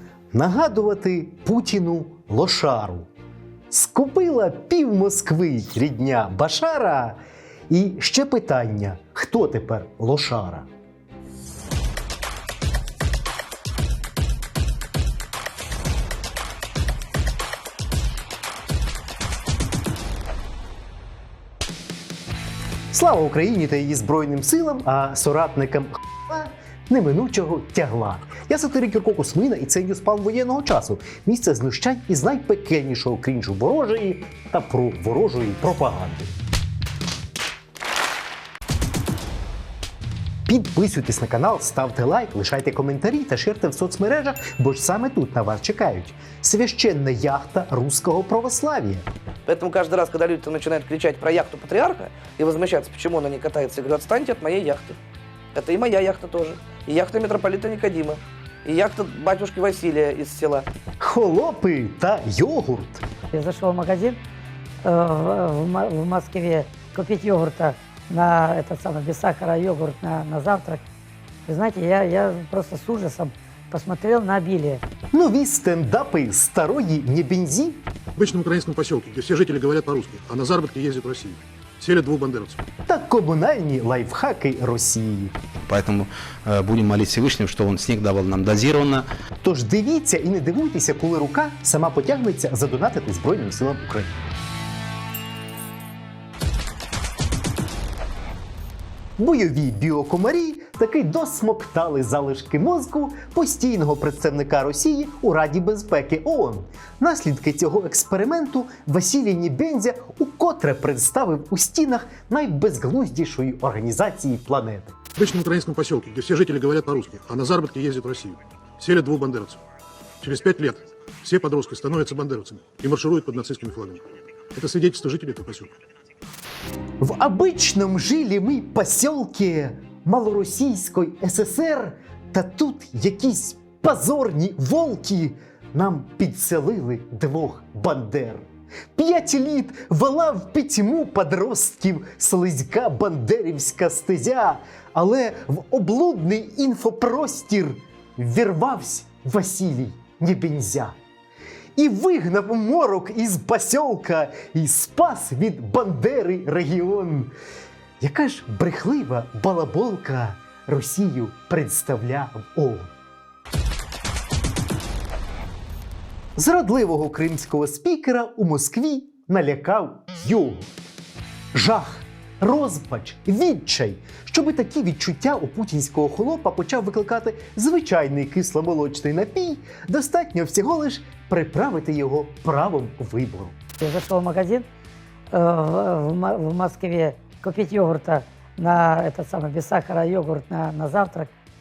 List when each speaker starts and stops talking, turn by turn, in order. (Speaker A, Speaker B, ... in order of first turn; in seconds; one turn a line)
Speaker A: 0.3-3.1
Speaker A: 3.7-10.7
Speaker A: 22.9-36.3
Speaker A: 40.5-49.1
Speaker B: 49.5-55.0
Speaker B: 55.5-60.7
Speaker A: 61.0-63.0
Speaker C: 63.3-64.2
Speaker C: 64.8-70.8
Speaker C: 71.5-74.8
Speaker A: 75.1-77.8
Speaker D: 78.2-82.6
Speaker A: 82.9-85.3
Speaker E: 85.6-89.1
Speaker A: 89.4-94.2
Speaker A: 99.2-115.0
Speaker D: 115.2-119.6
Speaker D: 120.2-125.7
Speaker A: 127.0-138.4
Speaker A: 139.0-151.0
Speaker A: 151.8-157.3
Speaker A: 158.0-162.9
Speaker A: 166.4-170.8
Speaker A: 171.5-183.6
Speaker C: 183.8-184.7
Speaker C: 185.3-191.3